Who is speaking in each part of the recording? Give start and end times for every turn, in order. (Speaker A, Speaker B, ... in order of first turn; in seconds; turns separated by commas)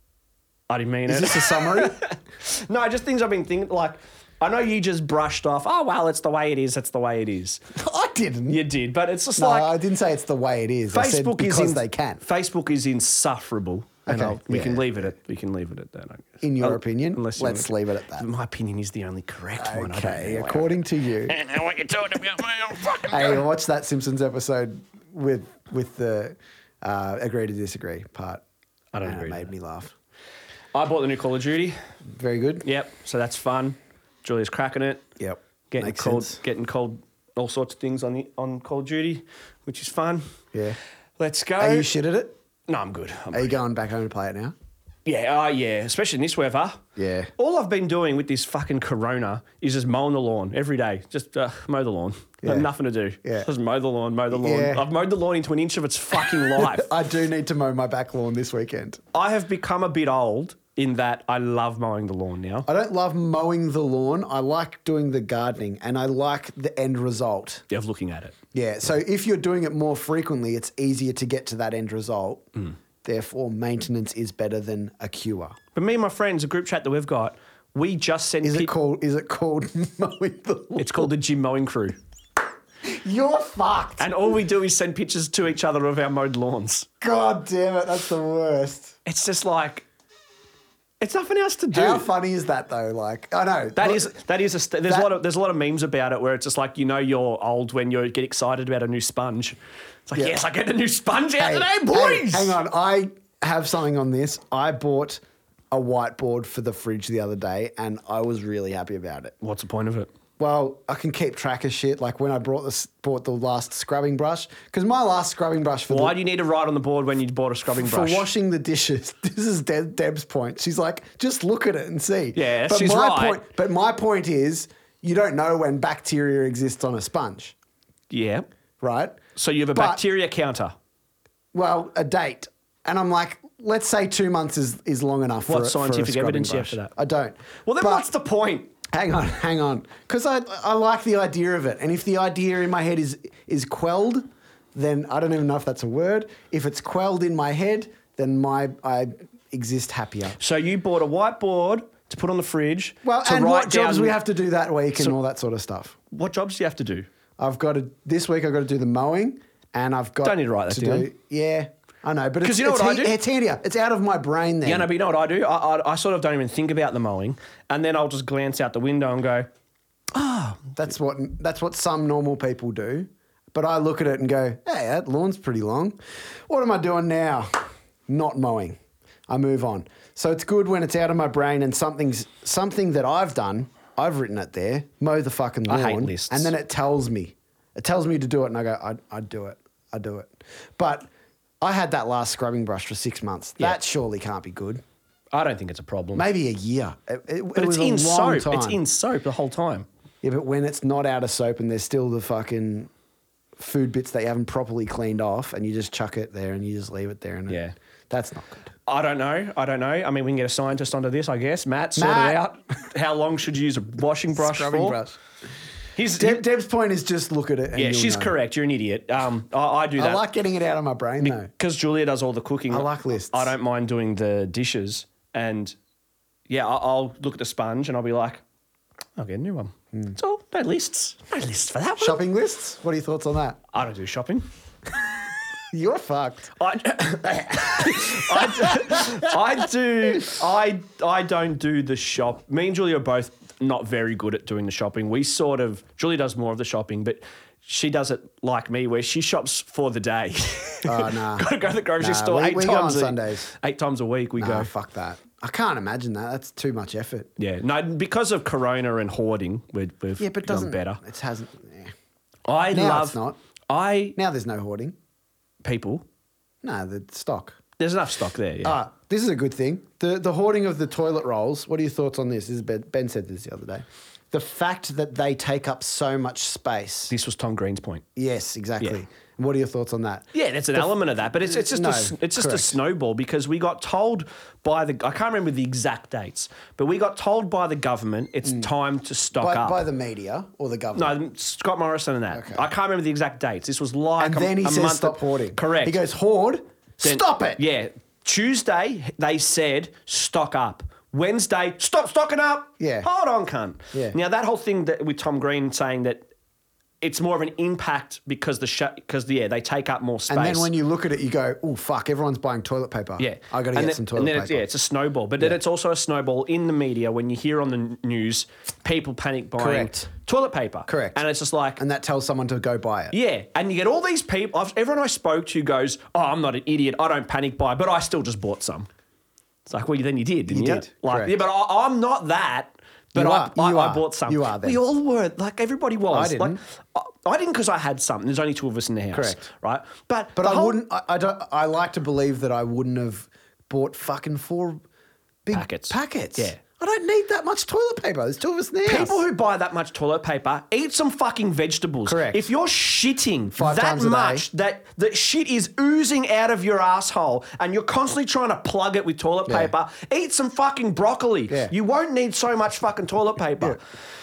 Speaker A: 0.7-7.6, Speaker B: 1.1-2.0, Speaker B: 7.7-8.6, Speaker A: 8.5-9.7, Speaker B: 9.4-12.2, Speaker A: 10.9-23.4, Speaker B: 14.1-15.1, Speaker B: 16.4-18.3, Speaker B: 19.6-21.4, Speaker B: 23.1-28.4, Speaker A: 28.9-29.5, Speaker B: 29.0-29.9, Speaker A: 30.7-31.8, Speaker B: 32.1-32.7, Speaker A: 32.6-35.1, Speaker B: 35.2-36.4, Speaker A: 35.7-40.3, Speaker A: 41.2-41.9, Speaker B: 41.6-42.4, Speaker A: 42.7-43.6, Speaker B: 43.3-44.5, Speaker A: 45.1-46.8, Speaker B: 47.0-47.3, Speaker A: 47.4-56.9, Speaker B: 52.4-52.7, Speaker B: 54.3-54.9, Speaker B: 56.2-59.0, Speaker A: 59.1-62.7, Speaker B: 62.7-67.6, Speaker A: 67.7-68.3, Speaker B: 68.5-72.5, Speaker B: 73.0-75.6, Speaker A: 75.8-78.7, Speaker B: 78.4-81.1, Speaker A: 80.8-82.0, Speaker B: 82.8-84.1, Speaker A: 84.0-86.9, Speaker B: 87.0-89.0, Speaker A: 89.0-89.8, Speaker A: 91.0-92.1, Speaker B: 91.7-94.1, Speaker A: 93.8-102.6, Speaker B: 101.4-109.3, Speaker A: 109.4-110.1, Speaker B: 110.4-116.2, Speaker A: 115.9-118.3, Speaker B: 117.8-127.5, Speaker A: 122.3-123.4, Speaker A: 128.1-128.5, Speaker B: 128.8-129.2, Speaker A: 129.4-130.7, Speaker B: 129.7-130.0, Speaker B: 131.5-138.1, Speaker A: 135.5-136.9, Speaker A: 137.7-138.7, Speaker B: 138.9-150.4, Speaker A: 150.4-154.2, Speaker B: 153.0-156.0, Speaker A: 156.1-157.1, Speaker B: 157.4-164.9, Speaker A: 160.2-161.1, Speaker A: 162.4-163.2, Speaker A: 164.6-169.5, Speaker A: 170.1-170.7, Speaker B: 170.8-176.0, Speaker B: 176.5-191.1, Speaker A: 185.7-186.5, Speaker B: 191.6-194.8, Speaker A: 195.3-196.3, Speaker B: 196.2-198.8, Speaker A: 197.6-199.9, Speaker B: 200.2-202.9, Speaker B: 203.6-208.7, Speaker A: 207.5-207.8, Speaker A: 208.9-215.0, Speaker B: 212.0-212.4, Speaker B: 214.3-215.2, Speaker A: 216.0-216.4, Speaker B: 216.2-218.3, Speaker A: 217.8-220.2, Speaker B: 220.0-221.5, Speaker A: 221.2-225.8, Speaker B: 222.7-223.5, Speaker A: 226.5-228.4, Speaker A: 229.2-232.2, Speaker B: 232.0-233.6, Speaker A: 233.7-234.5, Speaker B: 235.7-236.5, Speaker A: 236.6-254.7, Speaker B: 237.9-239.2, Speaker B: 250.8-251.5, Speaker B: 252.0-253.5, Speaker B: 254.4-257.3, Speaker A: 257.4-261.0, Speaker B: 260.2-261.9, Speaker A: 262.5-264.2, Speaker B: 262.7-263.4, Speaker B: 264.2-265.0, Speaker A: 265.6-266.1, Speaker B: 266.6-267.6, Speaker A: 267.8-268.8, Speaker B: 268.6-277.1, Speaker A: 277.1-278.0, Speaker B: 278.2-282.8, Speaker A: 280.3-289.8, Speaker B: 289.4-291.1, Speaker A: 290.9-296.0, Speaker B: 292.3-292.6, Speaker B: 294.2-297.6, Speaker A: 297.0-306.3, Speaker B: 302.8-303.1, Speaker A: 307.0-310.7, Speaker B: 310.3-314.6, Speaker A: 313.2-321.8, Speaker B: 319.6-320.1, Speaker B: 320.9-321.2, Speaker B: 321.8-323.2, Speaker A: 323.1-328.9, Speaker A: 329.7-340.8, Speaker B: 330.5-331.4, Speaker B: 333.1-334.8, Speaker B: 336.1-336.6, Speaker B: 339.1-339.4, Speaker B: 340.4-344.8, Speaker B: 345.5-349.2, Speaker A: 345.5-346.6, Speaker A: 348.9-363.8, Speaker B: 352.1-352.5, Speaker B: 353.6-354.4, Speaker B: 359.5-359.7